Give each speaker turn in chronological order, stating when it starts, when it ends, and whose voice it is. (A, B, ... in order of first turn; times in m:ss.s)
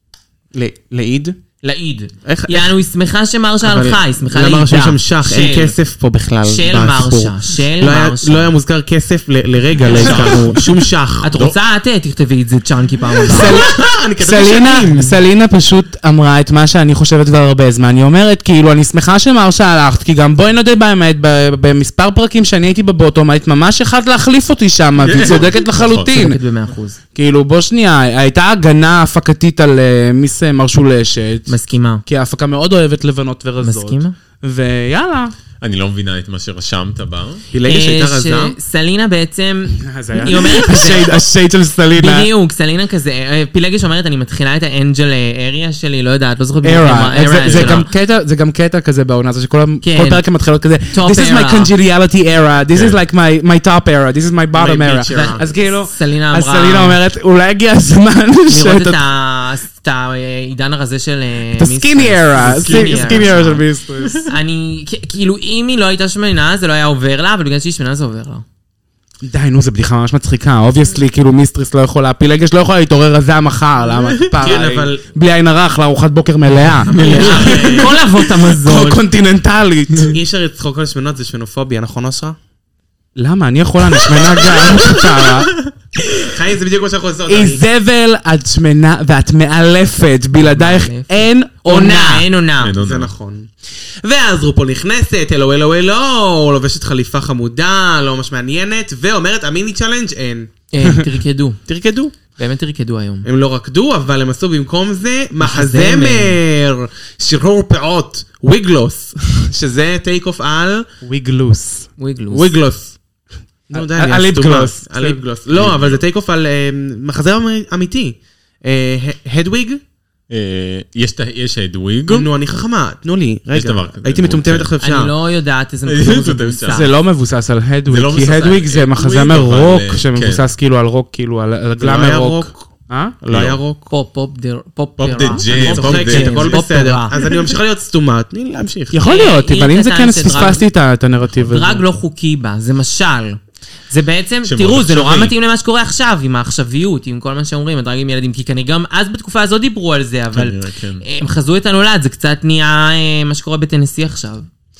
0:00.5-0:01.4 A
0:01.6-0:05.7 B
0:02.2-0:02.7 A
0:03.6-0:11.3 A
0:06.4-0:08.5 B
0:09.8-0:10.4 C
0:09.9-0:10.6 D
0:10.0-0:10.2 B
0:11.2-0:13.6 B
0:13.3-0:26.4 C
0:13.3-0:15.2 A
0:25.0-0:26.1 D
0:25.9-0:27.0 B
0:27.1-0:31.5 C
0:31.5-0:32.0 B
0:32.0-0:35.3 C
0:33.6-0:34.1 B
0:35.6-0:37.4 D
0:37.5-0:38.6 A
0:37.6-0:41.2 B
0:39.8-0:42.3 C
0:42.0-0:47.9 B
0:46.6-0:59.0 C
0:47.5-0:47.8 D
0:49.8-0:50.2 B
0:50.9-0:51.7 B
0:52.7-0:53.0 D
0:54.5-0:55.5 A
0:55.1-0:57.0 B
0:58.5-1:03.6 B
1:01.6-1:04.3 C
1:02.5-1:03.1 D
1:04.2-1:08.4 B
1:09.2-1:20.2 C
1:14.3-1:15.0 A
1:16.9-1:18.0 A
1:16.9-1:19.0 B
1:20.1-1:22.4 A
1:23.2-1:25.5 C
1:26.2-1:27.6 A
1:27.3-1:32.3 C
1:30.4-1:32.7 B
1:32.6-1:33.1 D
1:32.8-1:33.5 A
1:34.0-1:40.5 A
1:40.7-1:41.6 B
1:41.7-1:42.1 A
1:42.4-1:43.2 B
1:43.2-1:50.9 A
1:45.4-1:46.4 B
1:51.0-1:51.9 C
1:52.0-1:52.5 B
1:52.3-1:53.0 A
1:53.7-1:59.8 A
1:53.7-1:55.2 C
1:55.5-1:56.0 D
2:00.3-2:02.3 D
2:02.1-2:05.1 A
2:03.5-2:04.7 D
2:04.8-2:06.9 B
2:05.9-2:06.8 D
2:06.7-2:13.1 C
2:07.9-2:10.4 D
2:11.8-2:12.6 A
2:13.2-2:13.9 A
2:13.3-2:13.6 D
2:13.9-2:17.1 B
2:15.0-2:16.6 D
2:15.4-2:19.0 A
2:17.1-2:17.4 D
2:18.9-2:21.8 C
2:19.0-2:20.6 B
2:21.5-2:23.4 B
2:23.9-2:34.5 B
2:24.4-2:25.3 D
2:30.3-2:31.0 D